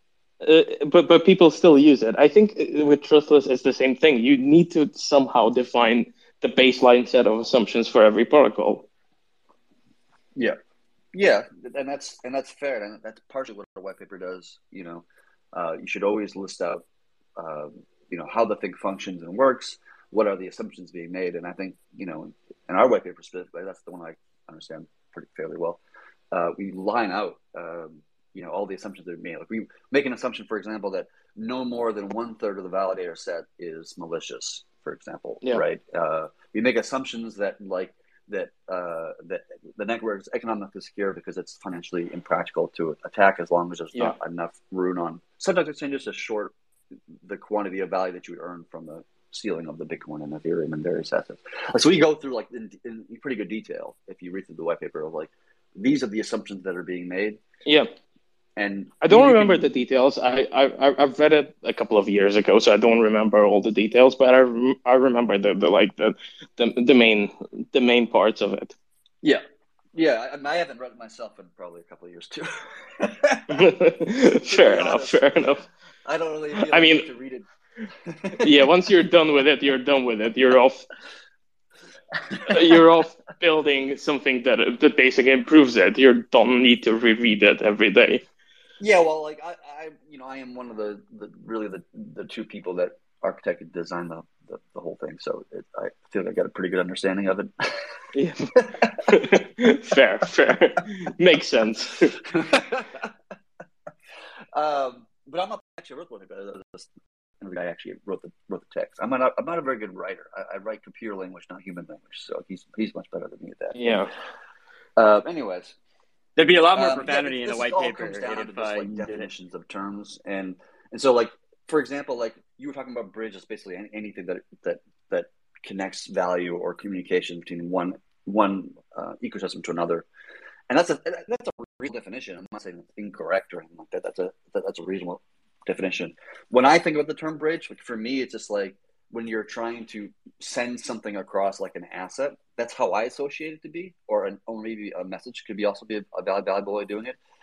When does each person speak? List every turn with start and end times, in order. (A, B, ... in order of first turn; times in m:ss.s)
0:00.4-0:08.9 A
0:11.1-0:16.8 B
0:17.4-0:25.8 B
0:26.3-0:46.5 B
0:47.2-0:57.4 B
0:57.6-0:57.9 A
0:58.6-0:59.6 B
0:59.0-1:08.8 A
1:09.9-1:13.7 B
1:13.5-1:15.6 A
1:14.5-1:15.4 B
1:16.1-1:17.5 B
1:16.6-1:17.1 A
1:18.1-1:18.5 B
1:18.4-1:20.8 A
1:22.3-1:22.8 B
1:22.5-1:28.2 A
1:28.8-1:37.8 B
1:38.1-1:42.1 A
1:38.6-1:39.4 B
1:42.2-1:43.1 B
1:44.5-1:46.9 B
1:47.4-1:53.9 B
1:53.7-1:54.1 A
1:55.0-1:55.8 B
1:56.4-1:59.1 C
1:56.7-2:10.1 B
2:10.7-2:27.2 B